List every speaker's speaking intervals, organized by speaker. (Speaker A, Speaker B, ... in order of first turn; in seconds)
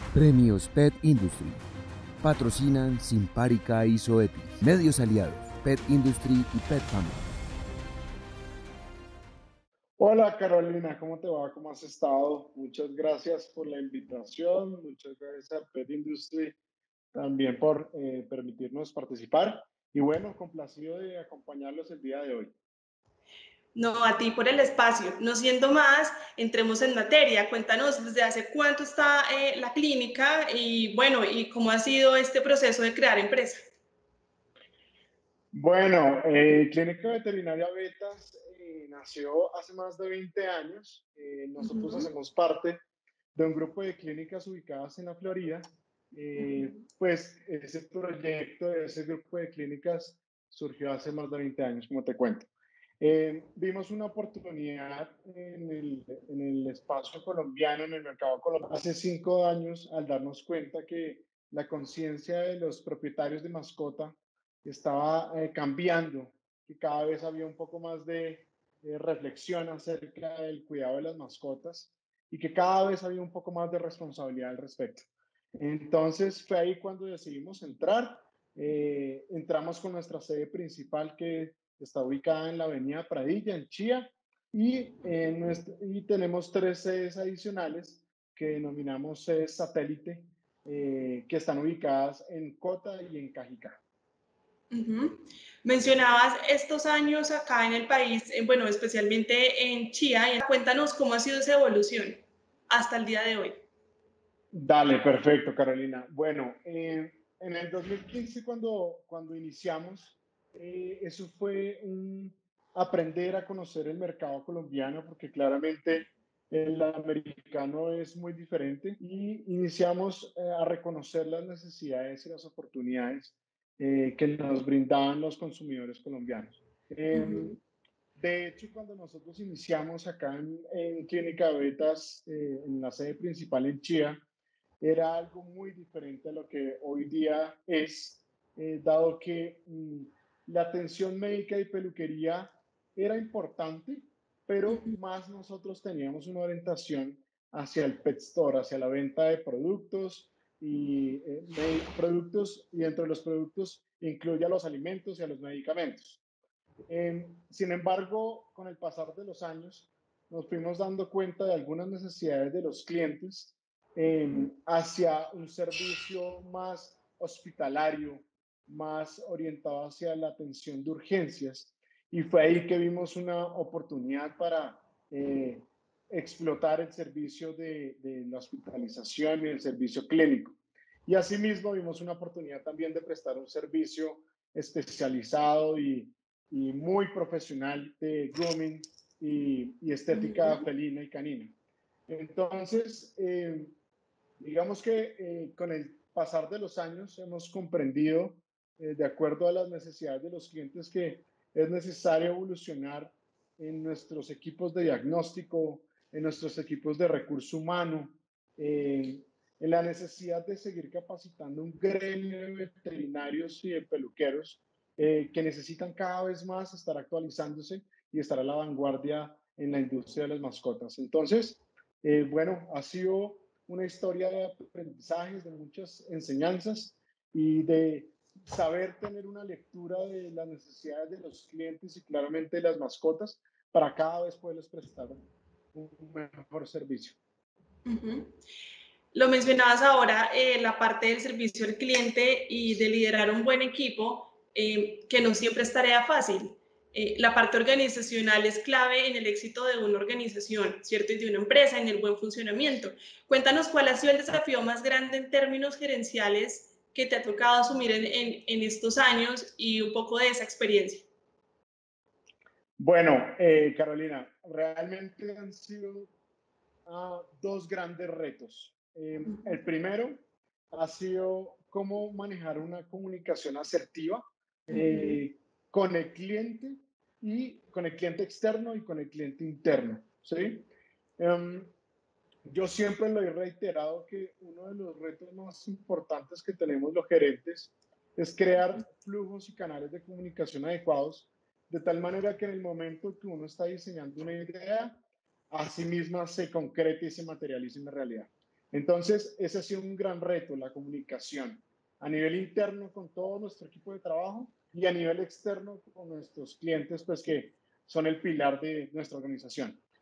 Speaker A: 0.1-1.6, 2.2-7.2
Speaker B: 10.0-16.6, 17.1-22.5, 35.5-42.8, 43.3-93.8, 104.5-127.6, 128.2-134.2, 134.8-156.2, 156.9-191.5, 192.1-193.8, 194.4-235.2, 235.7-237.2, 262.8-266.1, 266.9-281.7, 282.5-295.0, 295.5-309.8
Speaker C: 23.7-33.6, 41.6-42.1, 46.3-46.8, 94.7-103.6, 127.1-127.6, 144.7-144.9, 190.1-190.6, 237.8-238.3, 239.1-261.1, 274.7-275.2